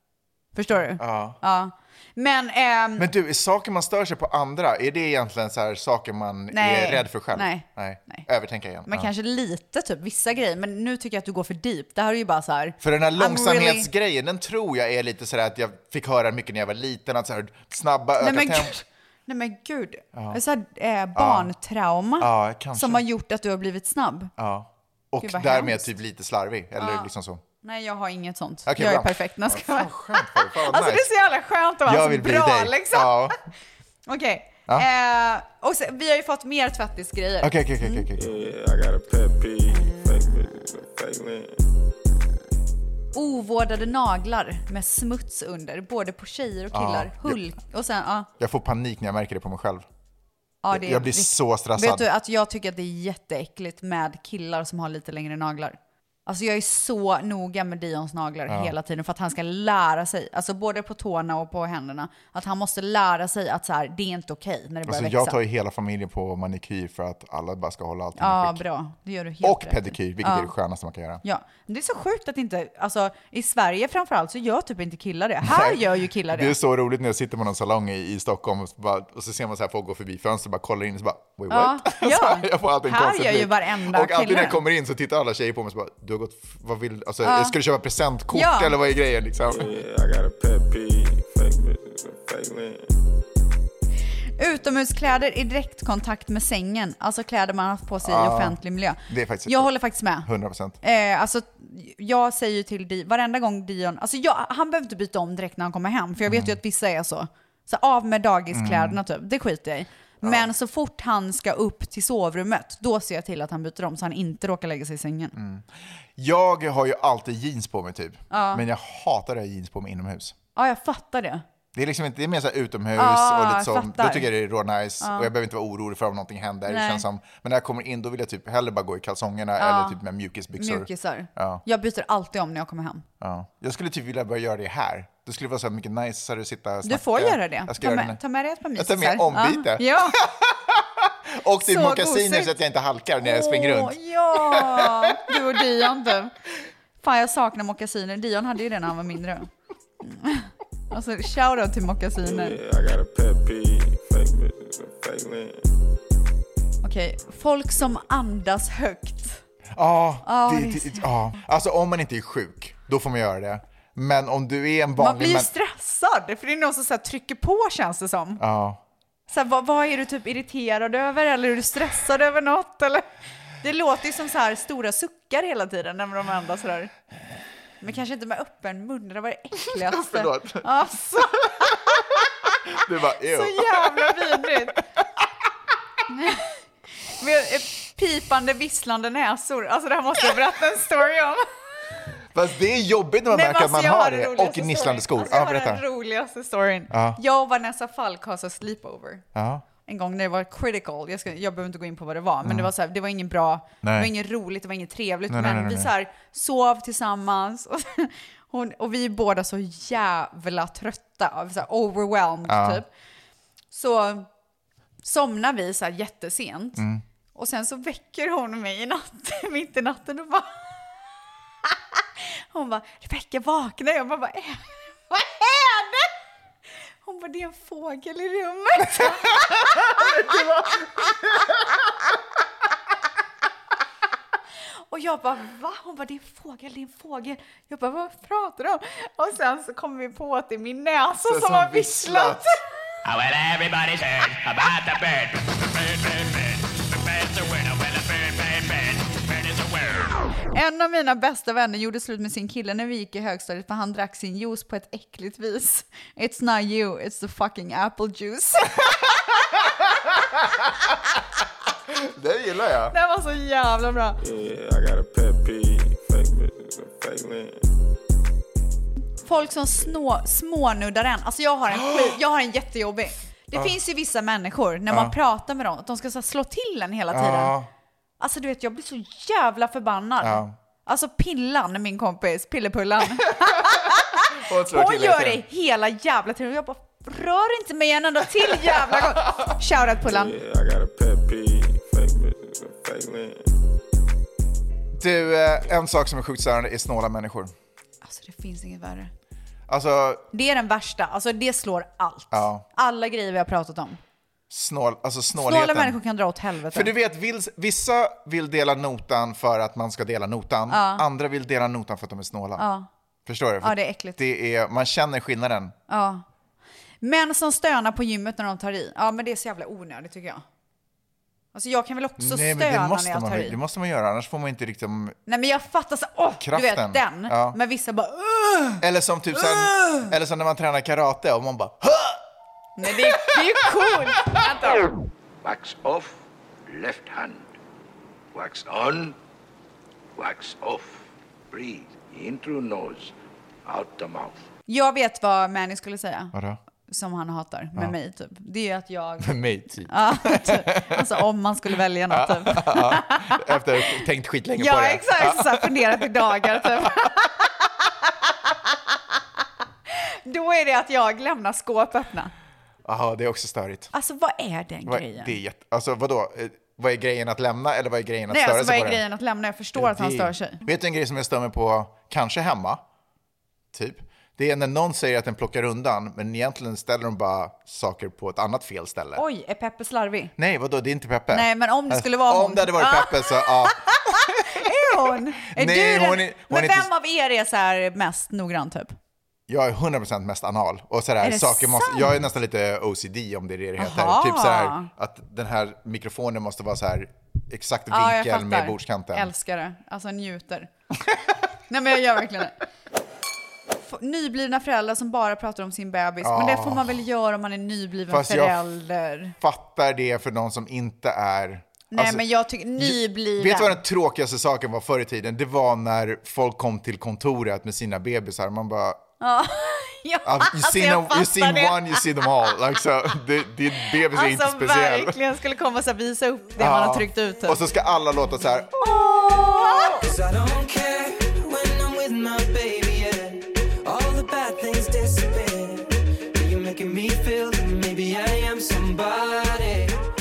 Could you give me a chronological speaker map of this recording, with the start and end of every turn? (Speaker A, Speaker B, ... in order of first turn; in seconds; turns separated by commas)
Speaker A: 0.5-3.1, Speaker B: 1.0-1.4, Speaker B: 3.0-9.1, Speaker A: 6.5-8.3, Speaker A: 8.9-13.9, Speaker B: 12.8-18.7, Speaker A: 18.2-24.3, Speaker B: 20.1-20.4, Speaker B: 21.1-21.5, Speaker B: 22.2-23.0, Speaker B: 24.4-27.4, Speaker A: 25.2-25.9, Speaker A: 26.8-27.1, Speaker A: 27.6-33.3, Speaker B: 28.7-31.1, Speaker B: 31.9-33.4, Speaker A: 34.1-38.1, Speaker B: 37.4-38.3, Speaker C: 38.2-41.6, Speaker A: 39.7-40.3, Speaker A: 43.1-48.3, Speaker B: 46.7-47.4, Speaker B: 48.4-49.9, Speaker A: 50.6-65.4, Speaker B: 50.7-52.1, Speaker B: 58.5-58.8, Speaker B: 64.9-68.6, Speaker A: 68.2-70.5, Speaker B: 69.4-71.2, Speaker A: 71.2-76.5, Speaker B: 75.4-89.7, Speaker A: 81.5-84.6, Speaker A: 87.2-87.6, Speaker A: 88.3-88.8, Speaker C: 89.5-92.9, Speaker A: 94.4-100.3, Speaker B: 98.0-99.7, Speaker B: 100.2-100.8, Speaker A: 100.8-115.3, Speaker B: 106.3-106.6, Speaker B: 108.5-109.0, Speaker B: 110.2-110.5, Speaker B: 115.3-120.3, Speaker A: 118.3-118.6, Speaker A: 120.6-121.5, Speaker B: 121.7-131.6, Speaker A: 123.0-124.3, Speaker A: 125.0-125.3, Speaker A: 126.7-127.0, Speaker A: 129.6-130.0, Speaker A: 130.6-133.1, Speaker B: 133.2-138.2, Speaker A: 136.8-140.2, Speaker B: 138.8-145.4, Speaker A: 141.6-142.5, Speaker A: 143.2-146.3, Speaker A: 147.0-149.5, Speaker A: 150.0-152.6, Speaker C: 152.2-155.6, Speaker A: 156.8-159.4, Speaker B: 159.7-165.5, Speaker A: 160.2-161.1, Speaker A: 165.0-168.4, Speaker B: 168.4-168.8, Speaker A: 169.3-173.1, Speaker A: 173.6-176.9, Speaker A: 177.8-182.2, Speaker B: 179.7-180.7, Speaker B: 181.6-182.0, Speaker B: 182.7-185.2, Speaker A: 183.3-184.8, Speaker A: 186.1-186.5, Speaker A: 187.1-191.5, Speaker B: 192.3-195.8, Speaker A: 193.3-199.2, Speaker B: 196.9-197.2, Speaker B: 199.3-199.7, Speaker A: 199.9-212.9, Speaker B: 202.4-202.7, Speaker B: 203.8-204.1, Speaker B: 205.3-205.9, Speaker B: 212.5-212.8, Speaker A: 213.7-214.3, Speaker A: 215.0-216.8, Speaker B: 216.8-217.0, Speaker A: 217.3-220.9, Speaker A: 221.7-226.1, Speaker A: 227.0-230.9, Speaker A: 234.9-242.6, Speaker B: 241.2-242.5, Speaker D: 243.1-250.2, Speaker A: 250.5-258.8, Speaker B: 261.9-262.9, Speaker A: 262.9-264.2, Speaker C: 264.2-267.6, Speaker A: 269.2-277.5, Speaker B: 271.7-272.1, Speaker B: 274.9-275.2, Speaker B: 277.1-277.7, Speaker A: 278.2-290.4, Speaker B: 280.2-280.6, Speaker B: 283.3-285.4, Speaker C: 290.1-293.4, Speaker B: 295.0-297.5, Speaker A: 298.0-299.1, Speaker B: 299.7-300.2, Speaker A: 300.3-304.0, Speaker B: 302.3-302.6, Speaker B: 304.5-306.0, Speaker A: 305.4-306.9, Speaker B: 306.7-312.7, Speaker A: 310.7-311.0, Speaker A: 312.6-312.9, Speaker B: 313.3-315.8, Speaker A: 313.6-314.2, Speaker A: 315.9-316.2, Speaker A: 317.0-320.4, Speaker A: 321.5-323.6, Speaker B: 322.2-325.2, Speaker A: 325.3-328.8, Speaker B: 326.4-327.6, Speaker B: 328.8-332.2, Speaker A: 329.4-330.1, Speaker A: 332.8-334.8, Speaker E: 335.4-337.5, Speaker E: 338.3-339.1, Speaker E: 340.2-343.1, Speaker E: 343.7-344.4, Speaker A: 344.7-346.4, Speaker B: 346.3-346.6, Speaker A: 346.9-349.4, Speaker B: 349.2-351.2, Speaker A: 349.9-353.4, Speaker B: 352.1-357.1, Speaker A: 354.6-357.3, Speaker A: 358.0-358.8, Speaker A: 359.9-362.3, Speaker B: 362.9-363.9, Speaker A: 363.9-365.4, Speaker B: 364.9-369.0, Speaker A: 368.3-370.6, Speaker B: 369.8-372.8, Speaker B: 373.7-379.2, Speaker A: 379.2-380.3, Speaker B: 380.4-384.7, Speaker A: 381.3-388.9, Speaker B: 385.5-386.9, Speaker B: 389.5-399.3, Speaker A: 391.2-392.2, Speaker A: 393.8-394.9, Speaker A: 397.9-400.7, Speaker A: 401.7-402.5, Speaker A: 403.8-409.4, Speaker B: 406.2-407.0, Speaker B: 408.1-408.6, Speaker B: 409.4-412.3, Speaker A: 411.9-413.8, Speaker B: 412.8-419.0, Speaker A: 419.2-422.0, Speaker B: 420.2-425.2, Speaker A: 423.8-427.6, Speaker B: 426.6-428.7, Speaker A: 428.8-430.0, Speaker F: 429.9-440.0